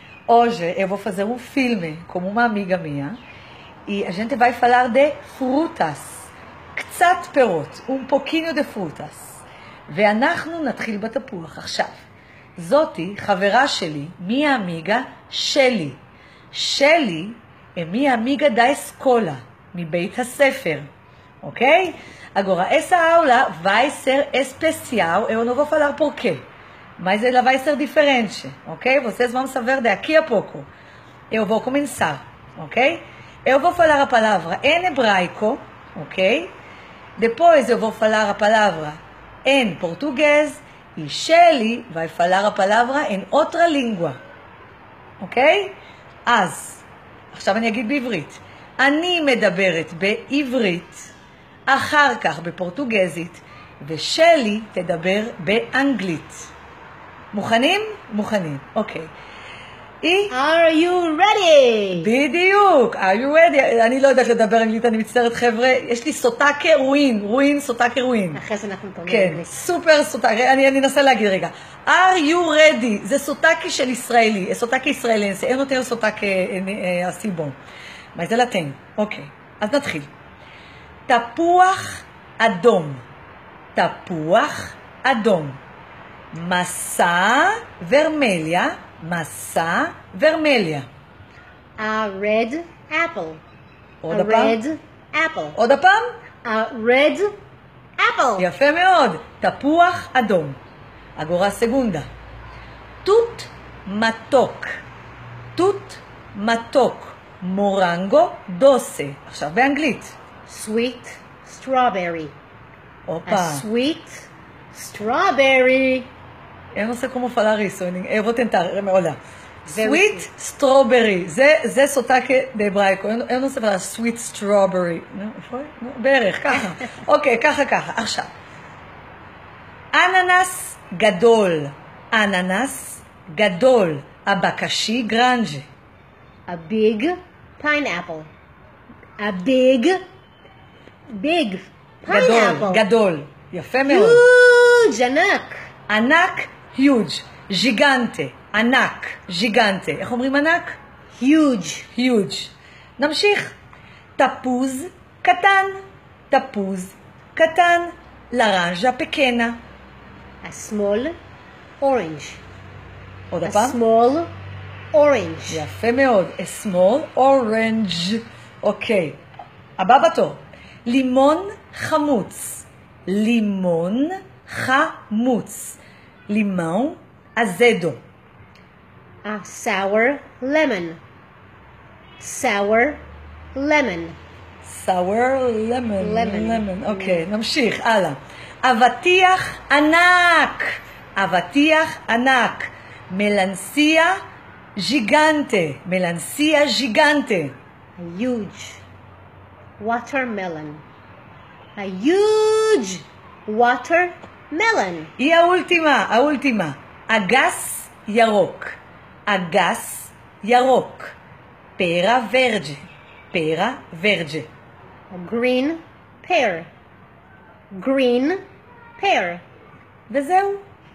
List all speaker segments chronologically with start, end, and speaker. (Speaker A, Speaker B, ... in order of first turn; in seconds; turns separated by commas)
Speaker A: 0.3-3.2, Speaker A: 3.9-12.0, Speaker A: 12.6-16.0, Speaker A: 16.5-20.9, Speaker A: 21.4-26.5, Speaker A: 27.0-30.7, Speaker A: 31.3-36.5, Speaker A: 37.2-44.2, Speaker A: 45.2-51.1, Speaker A: 51.7-56.5, Speaker A: 57.3-59.1, Speaker A: 60.0-60.3, Speaker B: 60.3-62.1, Speaker A: 61.9-68.4, Speaker B: 68.3-69.5, Speaker A: 69.0-77.5, Speaker A: 78.1-80.1, Speaker A: 81.1-83.0, Speaker A: 83.7-85.6, Speaker A: 86.3-90.9, Speaker B: 91.8-93.4, Speaker A: 94.0-94.6, Speaker B: 94.1-95.6, Speaker A: 95.5-96.1, Speaker B: 96.4-97.3, Speaker B: 98.0-98.5, Speaker A: 98.4-100.6, Speaker A: 101.2-102.1, Speaker A: 103.0-104.8, Speaker A: 105.5-110.1, Speaker B: 110.5-112.3, Speaker A: 113.1-113.6, Speaker B: 113.3-116.1, Speaker A: 116.7-119.2, Speaker B: 119.6-120.3, Speaker A: 119.7-128.3, Speaker A: 129.9-135.7, Speaker B: 136.5-138.3, Speaker B: 139.2-140.0, Speaker B: 141.1-142.8, Speaker A: 142.1-144.2, Speaker B: 143.9-145.7, Speaker A: 145.9-150.8, Speaker B: 151.2-151.9, Speaker A: 151.9-153.5, Speaker A: 154.2-159.6, Speaker B: 160.4-161.2, Speaker B: 161.8-162.4, Speaker A: 163.3-163.8, Speaker B: 163.4-164.3, Speaker B: 164.9-165.6, Speaker A: 165.5-169.2, Speaker A: 169.8-178.0, Speaker B: 179.2-181.0, Speaker B: 182.2-184.2, Speaker A: 184.6-194.2, Speaker B: 186.0-187.2, Speaker A: 194.8-197.6, Speaker B: 198.0-198.8, Speaker B: 199.8-200.8, Speaker B: 201.8-205.1, Speaker A: 205.2-211.2, Speaker A: 211.8-214.5, Speaker B: 215.1-216.7, Speaker B: 217.7-218.4, Speaker B: 219.0-219.4, Speaker A: 220.1-220.6